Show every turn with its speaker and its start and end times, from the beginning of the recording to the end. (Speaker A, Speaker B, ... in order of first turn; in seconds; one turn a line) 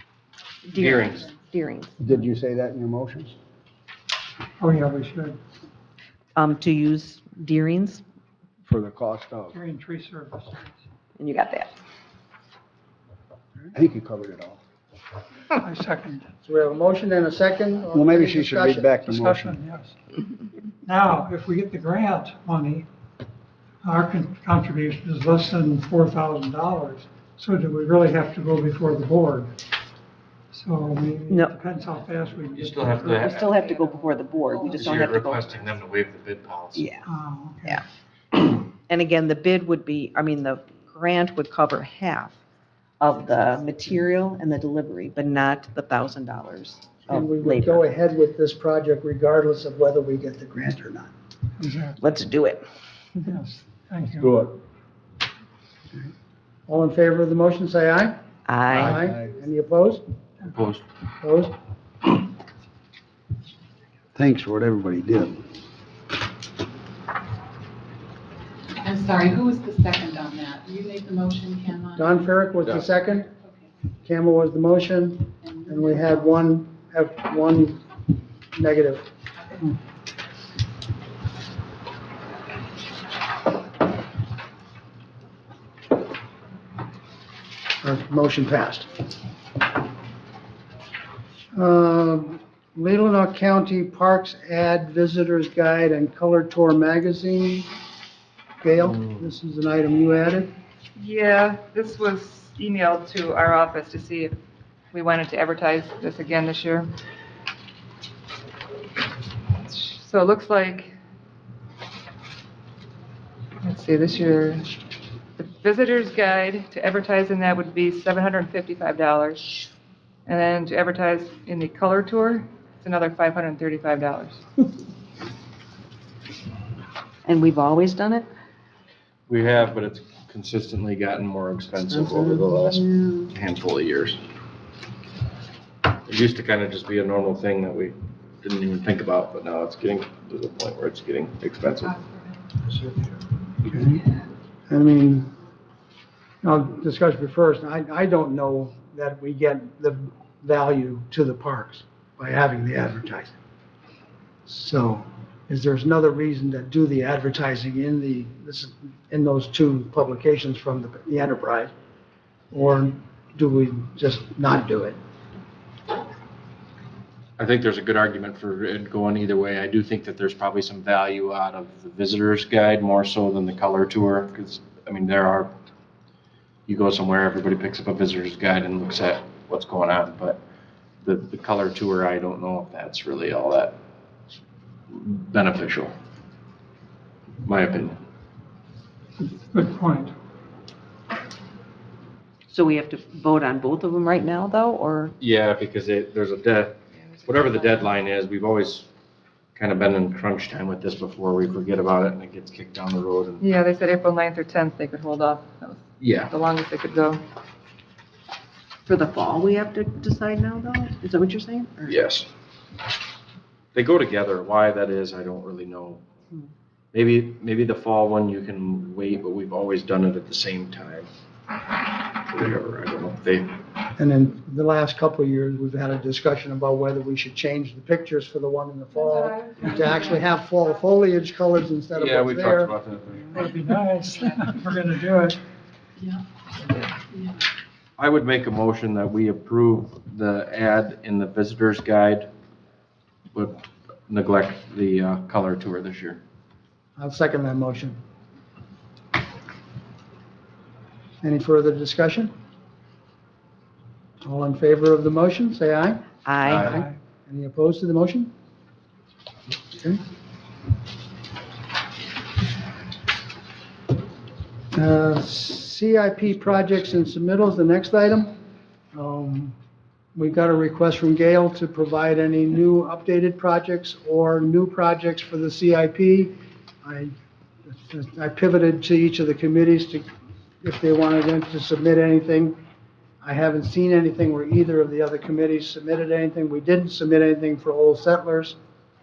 Speaker A: 0.6-2.0
Speaker B: 0.8-1.3
Speaker C: 2.0-3.4
Speaker D: 4.6-5.4
Speaker A: 6.3-8.0
Speaker C: 8.6-9.6
Speaker D: 9.5-10.7
Speaker A: 11.2-11.7
Speaker C: 13.7-14.6
Speaker D: 15.6-16.3
Speaker E: 16.4-18.9
Speaker C: 17.9-19.6
Speaker D: 19.1-19.9
Speaker D: 20.8-22.9
Speaker D: 23.8-29.5
Speaker D: 30.5-34.7
Speaker A: 31.3-31.6
Speaker B: 32.5-33.5
Speaker A: 33.1-35.5
Speaker B: 34.7-36.9
Speaker A: 36.7-37.0
Speaker D: 37.0-37.8
Speaker A: 38.4-42.4
Speaker A: 43.0-47.9
Speaker E: 47.1-51.1
Speaker D: 51.6-52.0
Speaker A: 52.0-52.6
Speaker D: 53.2-54.3
Speaker C: 54.1-54.5
Speaker E: 56.7-58.2
Speaker A: 58.5-59.0
Speaker E: 58.7-60.0
Speaker C: 58.8-59.2
Speaker B: 60.5-60.8
Speaker E: 61.2-61.5
Speaker C: 64.2-65.4
Speaker F: 68.8-72.0
Speaker E: 72.0-73.3
Speaker E: 74.0-77.8
Speaker E: 78.5-79.1
Speaker E: 87.8-88.9
Speaker E: 91.5-97.7
Speaker E: 98.6-100.5
Speaker G: 101.0-104.3
Speaker G: 104.9-106.9
Speaker G: 109.6-110.9
Speaker G: 113.6-114.7
Speaker G: 115.4-119.5
Speaker G: 120.2-124.4
Speaker A: 127.2-128.3
Speaker B: 129.3-134.2
Speaker A: 131.8-133.3
Speaker B: 136.1-142.0
Speaker E: 143.6-144.0
Speaker E: 144.7-145.3
Speaker E: 146.4-153.3
Speaker E: 154.5-161.7
Speaker E: 162.5-165.0
Speaker B: 167.4-175.5
Speaker B: 176.7-180.4
Speaker B: 181.0-183.7
Speaker B: 184.9-185.9
Speaker B: 187.4-188.0
Speaker D: 189.2-190.1
Speaker A: 192.5-195.1
Speaker B: 195.2-198.9
Speaker G: 197.0-197.7
Speaker B: 199.5-203.4
Speaker G: 203.4-207.2
Speaker B: 206.0-206.3
Speaker A: 208.8-212.0
Speaker B: 211.9-212.3
Speaker B: 213.7-216.0
Speaker B: 216.9-221.1
Speaker B: 222.3-223.5
Speaker E: 224.0-232.7
Speaker B: 231.9-233.5
Speaker D: 233.3-235.4
Speaker B: 238.0-242.3
Speaker B: 243.3-246.2
Speaker E: 247.0-248.0
Speaker E: 251.2-252.3
Speaker E: 254.2-256.0
Speaker A: 256.2-256.7
Speaker B: 256.4-256.8
Speaker E: 256.5-258.3
Speaker D: 256.6-256.9
Speaker E: 259.7-260.0
Speaker E: 264.7-268.3
Speaker E: 268.9-269.6
Speaker E: 270.1-277.1
Speaker E: 277.6-280.0
Speaker E: 280.6-282.6
Speaker E: 283.2-288.6